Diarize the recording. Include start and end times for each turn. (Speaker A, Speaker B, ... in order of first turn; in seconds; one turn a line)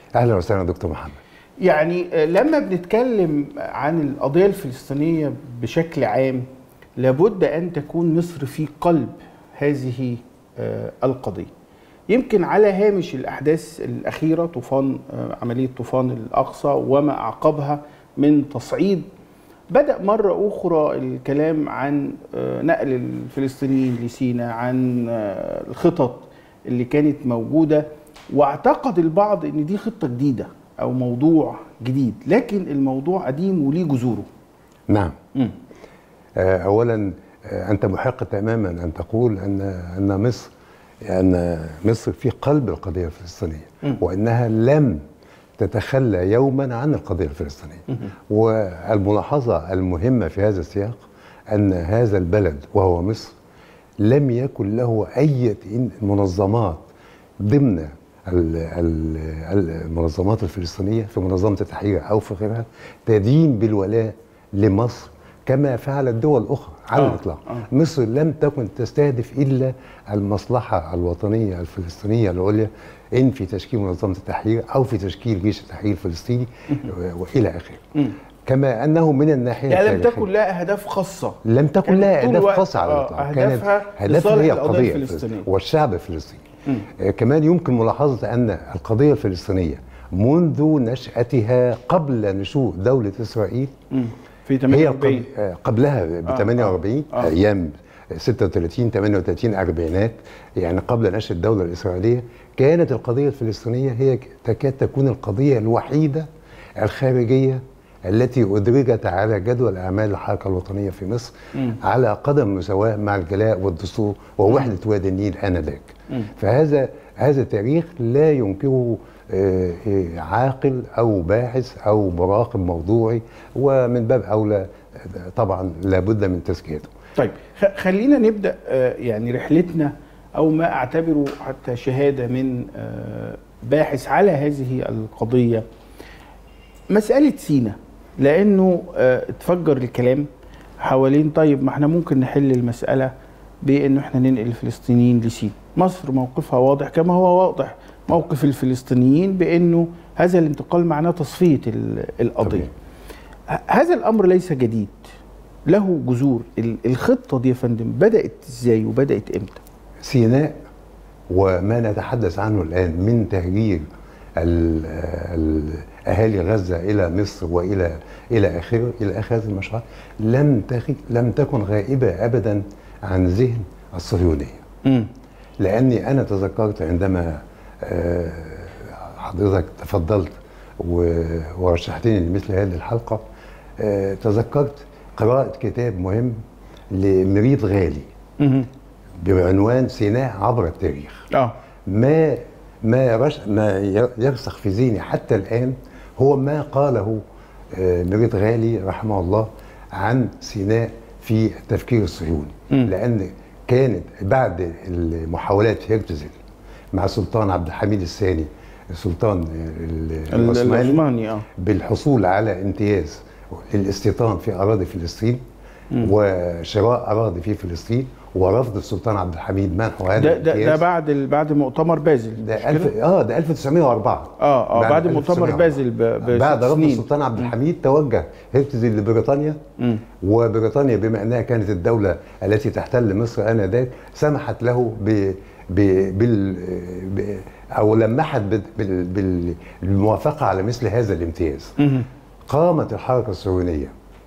Speaker A: 0.1-1.2
Speaker B: 1.6-6.4
Speaker B: 7.0-11.5
Speaker B: 12.1-19.1
Speaker B: 19.7-34.3
Speaker A: 34.9-35.1
Speaker A: 36.4-40.5
Speaker A: 41.1-45.0
Speaker A: 45.6-53.3
Speaker A: 54.0-56.8
Speaker A: 57.4-77.9
Speaker B: 66.9-67.6
Speaker A: 78.5-80.3
Speaker B: 79.7-85.5
Speaker A: 81.4-93.7
Speaker B: 93.9-95.3
Speaker A: 94.7-106.3
Speaker B: 96.3-97.3
Speaker A: 106.8-126.9
Speaker B: 127.2-135.6
Speaker B: 136.9-140.3
Speaker B: 140.8-143.1
Speaker B: 143.6-152.7
Speaker A: 152.4-152.7
Speaker B: 153.5-155.1
Speaker B: 155.7-159.6
Speaker A: 160.0-160.5
Speaker A: 161.3-163.8
Speaker A: 164.4-174.6
Speaker A: 175.6-183.2
Speaker A: 183.8-186.4
Speaker A: 186.9-188.1
Speaker B: 188.4-188.7
Speaker A: 189.2-191.3
Speaker A: 191.9-197.2
Speaker A: 197.7-206.3
Speaker A: 206.9-211.0
Speaker B: 210.3-211.4
Speaker A: 211.6-215.4
Speaker A: 216.0-220.8
Speaker B: 220.2-222.9
Speaker A: 222.4-229.6
Speaker B: 224.4-227.5
Speaker A: 230.2-241.8
Speaker B: 241.8-242.1
Speaker A: 242.5-243.9